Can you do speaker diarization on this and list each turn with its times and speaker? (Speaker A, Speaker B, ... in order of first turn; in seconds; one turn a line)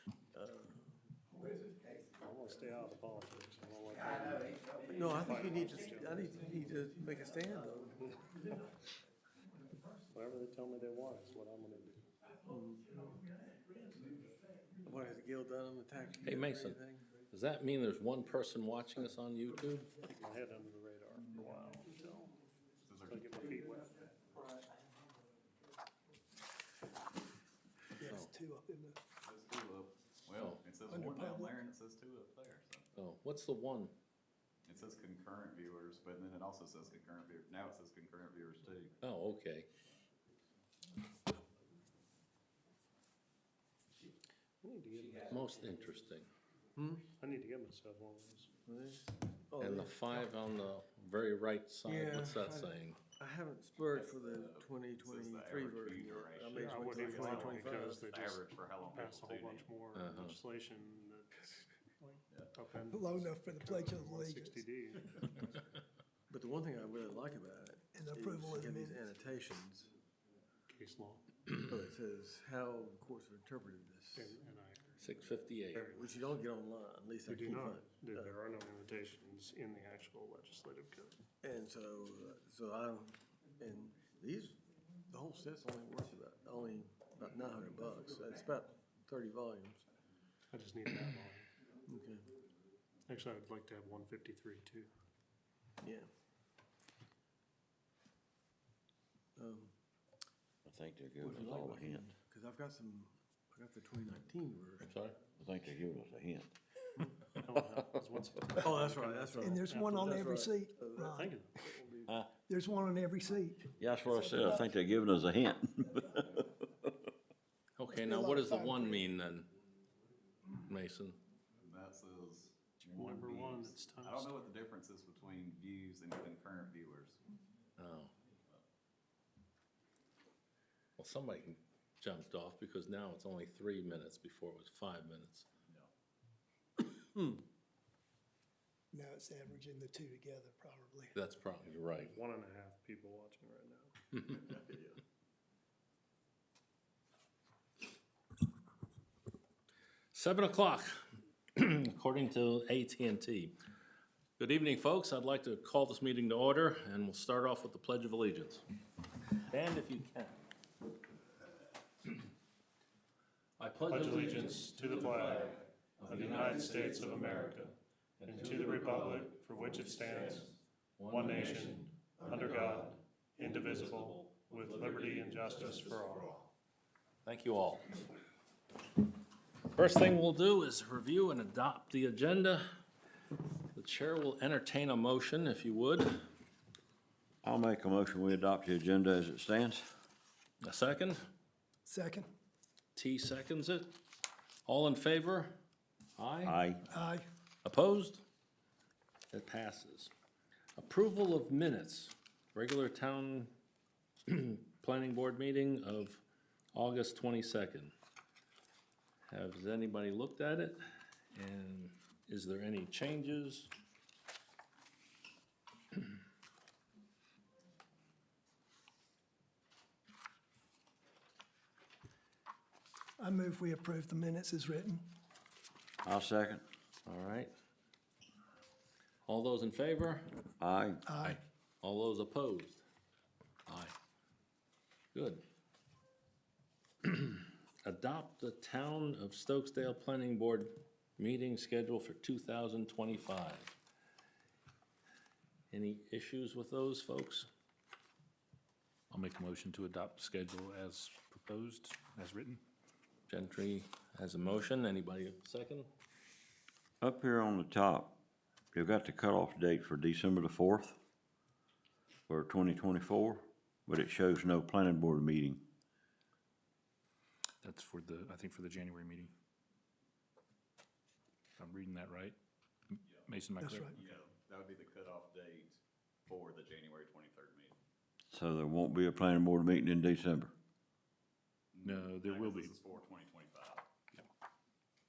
Speaker A: 0.3-1.0
Speaker B: 2.1-6.6
Speaker A: 4.9-8.2
Speaker B: 10.1-12.1
Speaker A: 12.4-13.0
Speaker A: 14.8-17.1
Speaker C: 16.2-19.9
Speaker B: 20.0-22.4
Speaker D: 22.8-23.6
Speaker B: 23.1-24.3
Speaker E: 28.0-29.0
Speaker D: 29.2-32.9
Speaker C: 30.3-30.6
Speaker E: 30.9-31.6
Speaker C: 33.0-33.9
Speaker D: 34.6-39.0
Speaker C: 39.0-39.7
Speaker B: 44.6-45.4
Speaker C: 45.2-46.3
Speaker A: 46.8-47.0
Speaker B: 47.1-48.5
Speaker A: 48.6-50.2
Speaker C: 49.6-53.0
Speaker A: 51.8-58.0
Speaker D: 54.5-59.7
Speaker B: 56.5-65.6
Speaker C: 59.9-60.4
Speaker E: 62.9-64.6
Speaker A: 66.3-69.9
Speaker E: 67.9-69.0
Speaker B: 70.7-71.2
Speaker A: 71.6-74.4
Speaker B: 74.2-74.9
Speaker C: 75.0-75.9
Speaker B: 75.7-76.2
Speaker A: 75.9-78.3
Speaker B: 77.2-81.2
Speaker A: 81.4-89.8
Speaker B: 90.5-91.5
Speaker A: 91.9-92.2
Speaker B: 93.1-94.9
Speaker A: 95.8-96.1
Speaker A: 99.4-99.7
Speaker F: 100.7-102.1
Speaker A: 101.2-104.9
Speaker C: 104.8-105.2
Speaker F: 105.4-106.5
Speaker B: 107.3-110.4
Speaker A: 108.6-112.2
Speaker E: 109.4-111.3
Speaker B: 111.0-111.5
Speaker E: 112.5-113.6
Speaker F: 113.8-116.6
Speaker E: 114.1-114.7
Speaker C: 117.8-119.5
Speaker E: 118.0-119.0
Speaker C: 120.6-121.2
Speaker D: 121.6-127.2
Speaker B: 122.8-124.5
Speaker C: 127.8-128.1
Speaker C: 131.0-135.4
Speaker E: 138.9-141.1
Speaker C: 141.1-142.2
Speaker B: 142.0-144.3
Speaker D: 144.4-145.0
Speaker C: 150.1-153.5
Speaker C: 154.4-158.6
Speaker C: 159.4-160.3
Speaker C: 163.6-176.1
Speaker B: 163.9-170.5
Speaker B: 171.0-176.5
Speaker C: 177.2-177.9
Speaker C: 179.7-182.7
Speaker C: 183.7-186.2
Speaker F: 187.4-189.8
Speaker C: 190.6-191.2
Speaker E: 191.8-192.3
Speaker C: 192.9-193.9
Speaker C: 194.6-195.6
Speaker C: 196.2-196.6
Speaker F: 196.4-196.8
Speaker E: 196.9-197.2
Speaker C: 197.6-198.2
Speaker C: 199.3-200.1
Speaker C: 200.8-203.5
Speaker C: 204.3-206.2
Speaker C: 206.7-207.9
Speaker C: 209.3-210.8
Speaker C: 211.3-213.7
Speaker E: 223.2-225.0
Speaker F: 226.0-226.6
Speaker C: 227.1-227.5
Speaker C: 229.2-230.2
Speaker F: 230.6-231.3
Speaker E: 231.1-231.3
Speaker C: 231.2-232.8
Speaker C: 233.7-233.9
Speaker C: 235.1-235.4
Speaker C: 237.0-243.7
Speaker C: 245.7-247.5
Speaker G: 249.1-252.6
Speaker C: 253.3-255.9
Speaker F: 257.0-258.1
Speaker F: 258.7-261.0
Speaker F: 262.3-265.6
Speaker G: 267.6-269.3
Speaker G: 271.6-272.4
Speaker G: 272.9-274.1
Speaker E: 273.6-273.9
Speaker D: 273.9-277.8
Speaker F: 278.3-280.5
Speaker D: 281.7-283.8
Speaker G: 281.8-282.8